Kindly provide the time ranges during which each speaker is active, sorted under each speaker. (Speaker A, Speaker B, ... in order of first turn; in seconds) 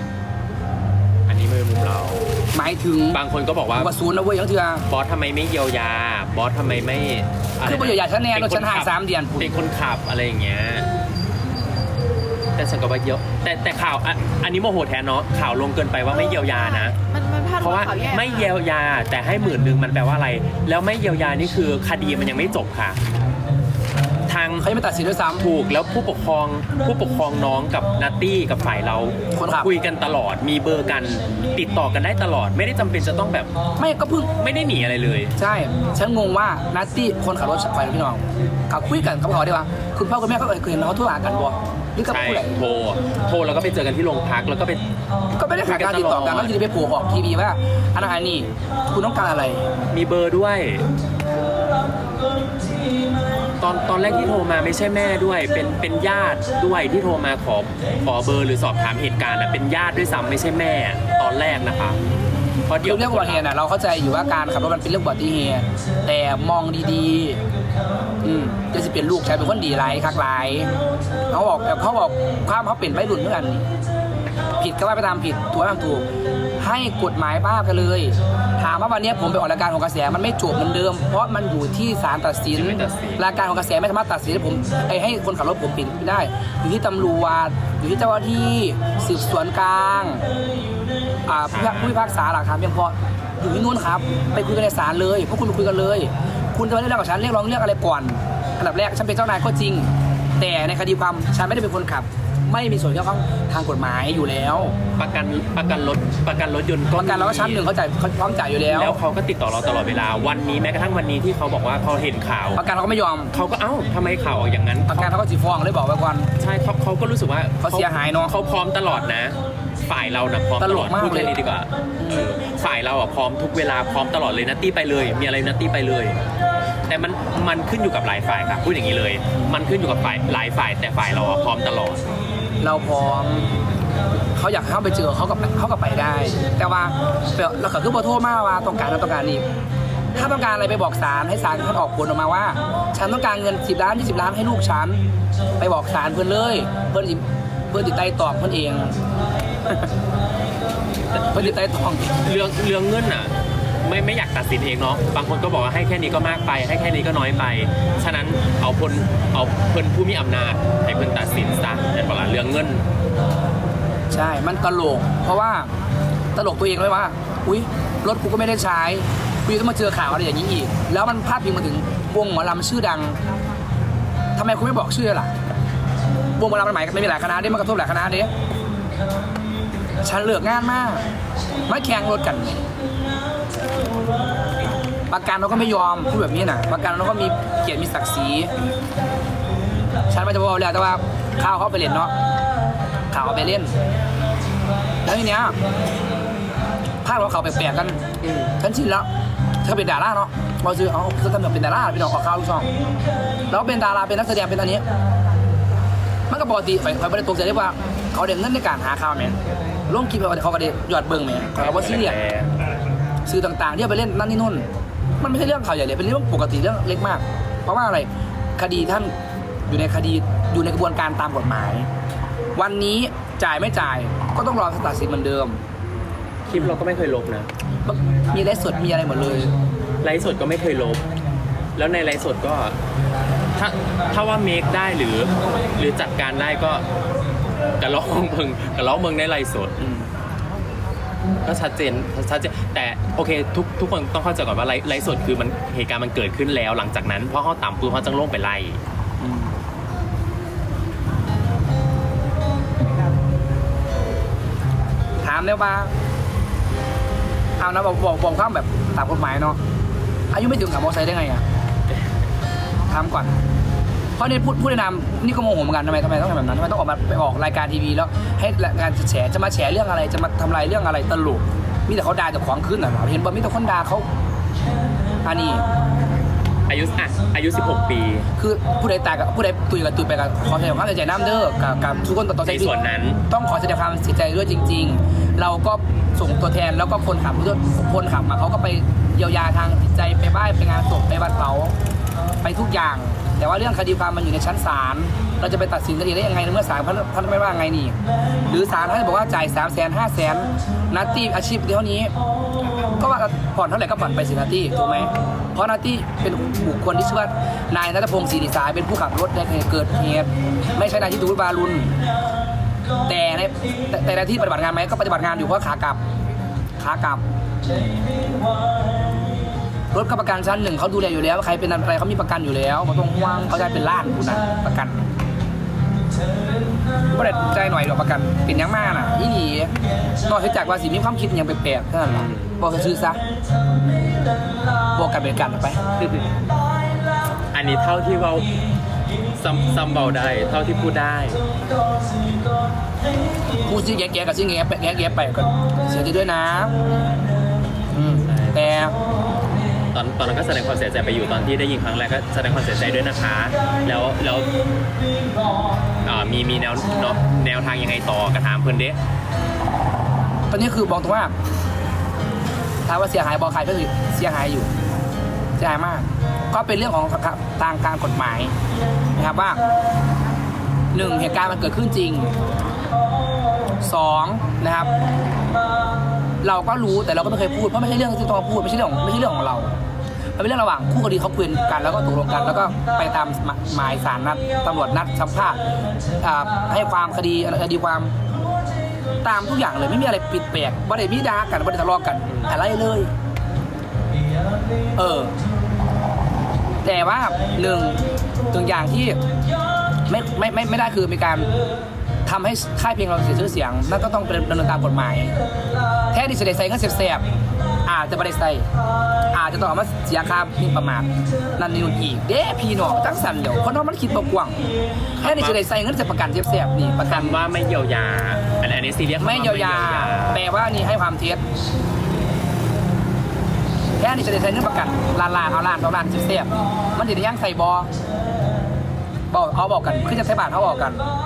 Speaker A: 1.3-2.2, 3.1-3.9, 4.9-10.9, 12.6-16.9, 17.6-23.0, 24.2-24.6, 25.4-33.5, 34.4-35.3, 42.0-44.8, 45.6-46.5, 49.9-50.8, 53.6-62.0, 62.7-63.4, 82.5-83.2, 91.5-91.9, 105.0-107.6, 108.7-112.6, 113.3-115.1, 116.4-119.3, 119.8-126.2, 126.9-132.0, 151.1-151.6, 152.2-153.3, 153.8-162.8, 198.2-198.5, 211.6-212.6, 226.5-227.5, 230.0-231.0, 231.8-232.8, 233.6-236.8, 237.8-239.8, 241.4-248.8, 276.7-278.3, 282.4-283.2, 332.0-332.5, 336.0-336.2, 337.5-338.5, 339.3-341.4, 348.3-348.7, 349.9-354.5, 356.0-359.0, 415.2-415.6, 417.1-420.4
Speaker B: 2.5-3.2, 3.8-4.8, 7.6-9.5, 24.6-25.4, 29.3-29.7, 33.8-34.3, 35.4-42.5, 45.4-49.7, 62.8-67.4, 68.2-70.7, 71.3-73.6, 74.6-76.0, 76.6-90.2, 91.3-104.7, 107.0-109.0, 112.5-113.3, 114.9-116.3, 117.6-118.3, 120.6-121.3, 122.0-122.3, 132.6-133.5, 134.3-139.4, 140.2-145.0, 145.6-148.9, 151.3-152.1, 164.1-165.7, 166.3-173.2, 174.3-175.3, 176.3-178.3, 180.0-181.0, 181.7-182.6, 185.1-188.5, 190.1-192.1, 193.1-193.7, 195.1-195.6, 197.0-198.0, 198.6-199.1, 199.6-202.7, 203.5-204.8, 206.3-209.3, 209.9-212.2, 213.2-214.7, 215.2-219.1, 219.7-221.9, 222.6-225.6, 227.8-229.5, 239.8-240.1, 249.2-249.5, 255.2-255.9, 257.6-259.6, 260.3-261.4, 262.9-263.3, 264.2-274.1, 275.2-275.6, 278.4-282.7, 283.3-291.7, 292.4-302.1, 302.9-311.9, 313.1-316.0, 316.8-317.2, 319.9-325.1, 327.1-329.7, 330.2-333.2, 334.9-335.8, 343.6-346.7, 347.9-348.9, 360.5-361.3, 362.9-364.7, 365.6-368.5, 369.1-369.6, 370.9-372.3, 373.8-374.9, 376.4-379.7, 380.4-385.6, 386.2-388.1, 389.2-393.1, 395.0-395.3, 396.8-398.0, 398.5-399.2, 400.1-401.5, 402.2-405.3, 406.1-407.2, 407.9-408.6, 409.3-414.6, 415.2-417.4, 419.2-421.4, 424.0-427.9, 429.3-431.0
Speaker C: 16.2-18.5